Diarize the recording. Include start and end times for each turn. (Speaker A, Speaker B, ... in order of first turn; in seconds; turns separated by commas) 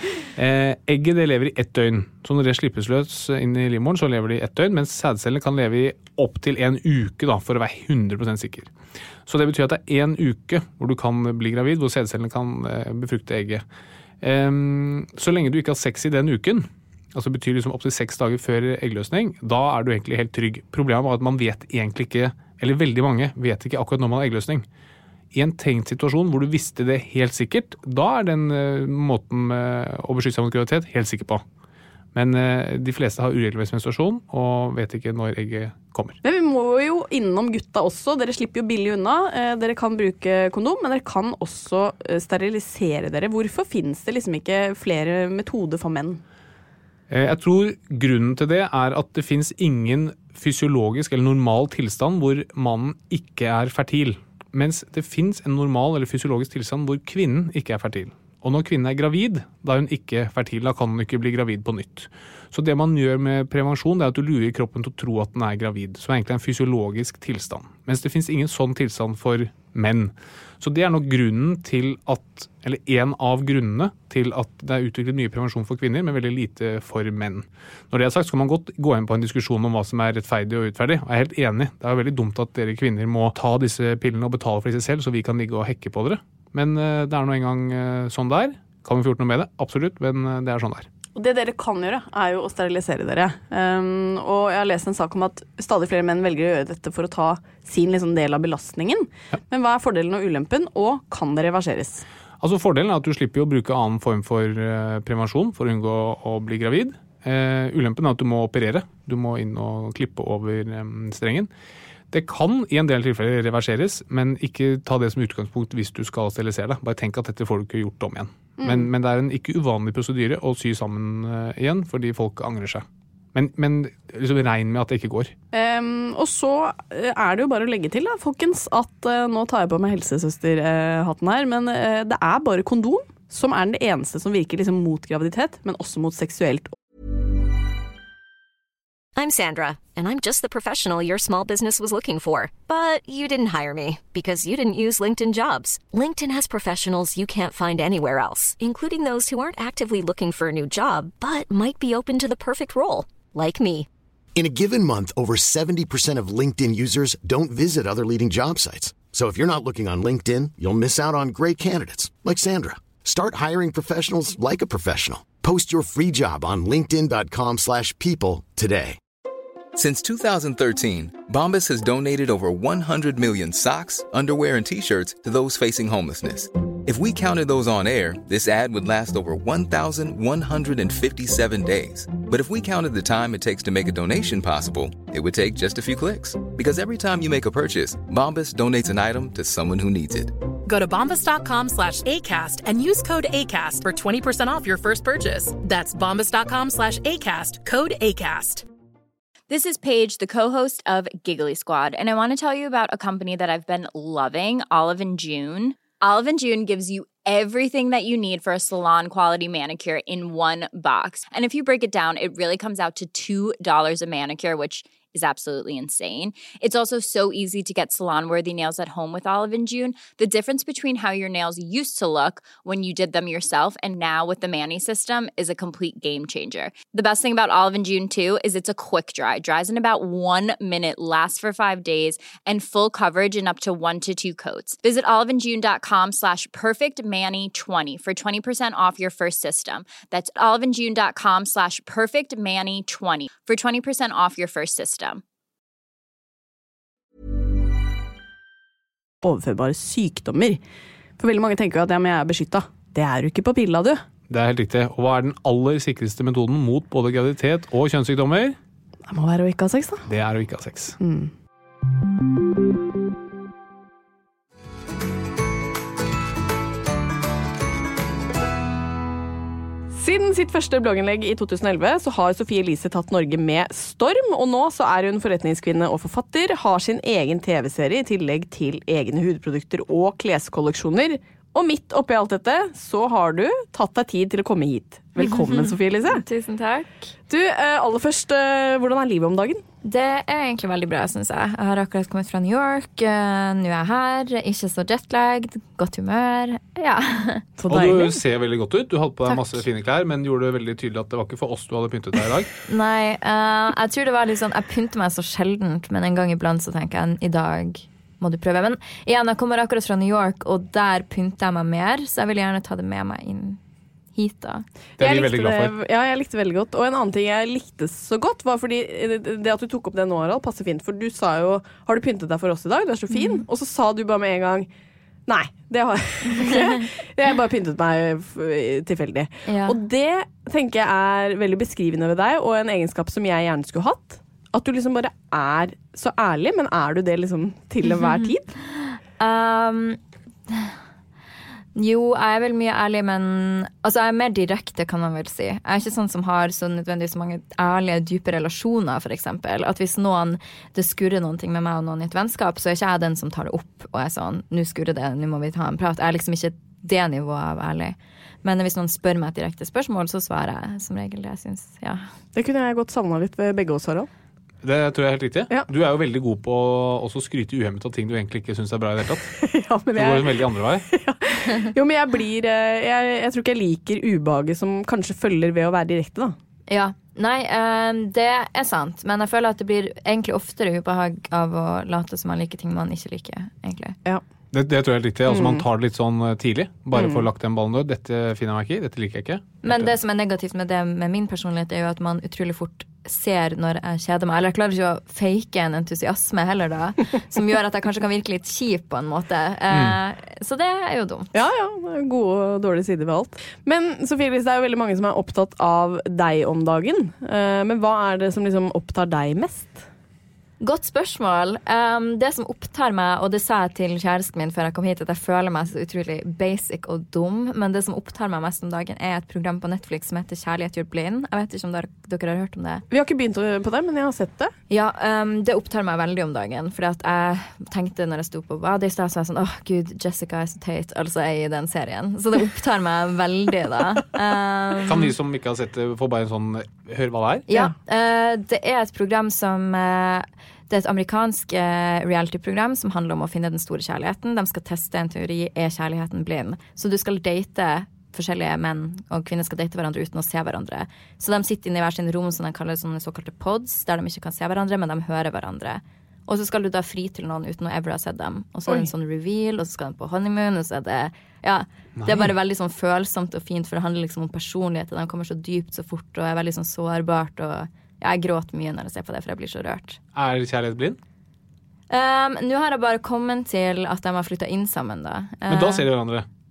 Speaker A: 0.3-8.7, Speaker A: 9.2-13.6, Speaker A: 14.2-24.7, Speaker A: 25.3-31.4, Speaker A: 32.1-36.2, Speaker B: 36.2-46.2, Speaker A: 47.1-90.9, Speaker B: 91.1-102.0, Speaker A: 102.4-111.5, Speaker A: 112.1-125.3, Speaker B: 118.6-118.9, Speaker B: 125.5-136.7, Speaker C: 139.2-153.9, Speaker D: 154.3-169.0, Speaker E: 169.7-190.3, Speaker F: 190.6-198.6, Speaker G: 199.5-245.2, Speaker B: 249.2-250.6, Speaker B: 251.2-254.0, Speaker A: 254.3-258.6, Speaker B: 259.1-260.1, Speaker A: 260.1-261.0, Speaker B: 261.0-261.3, Speaker B: 269.9-286.2, Speaker H: 285.2-287.1, Speaker B: 287.3-289.6, Speaker H: 289.8-297.5, Speaker B: 297.6-298.2, Speaker A: 297.7-302.5, Speaker H: 302.7-313.6, Speaker H: 314.1-314.6, Speaker A: 315.0-315.7, Speaker B: 315.0-324.7, Speaker H: 323.1-323.4, Speaker B: 325.3-338.5, Speaker H: 326.3-326.8, Speaker H: 329.4-329.8, Speaker H: 337.8-340.0, Speaker H: 341.7-362.1, Speaker B: 362.3-364.1, Speaker A: 364.6-369.3, Speaker B: 369.4-376.4, Speaker A: 369.9-370.9, Speaker H: 376.7-383.9, Speaker A: 384.5-389.9, Speaker B: 385.3-385.6, Speaker B: 386.9-387.2, Speaker H: 389.6-401.3, Speaker B: 401.3-409.9, Speaker H: 410.6-422.8, Speaker B: 422.9-424.5, Speaker H: 424.7-435.1, Speaker A: 434.9-437.5, Speaker H: 437.5-470.0, Speaker A: 462.0-462.3, Speaker A: 470.1-471.0, Speaker H: 471.9-475.9, Speaker A: 475.5-476.2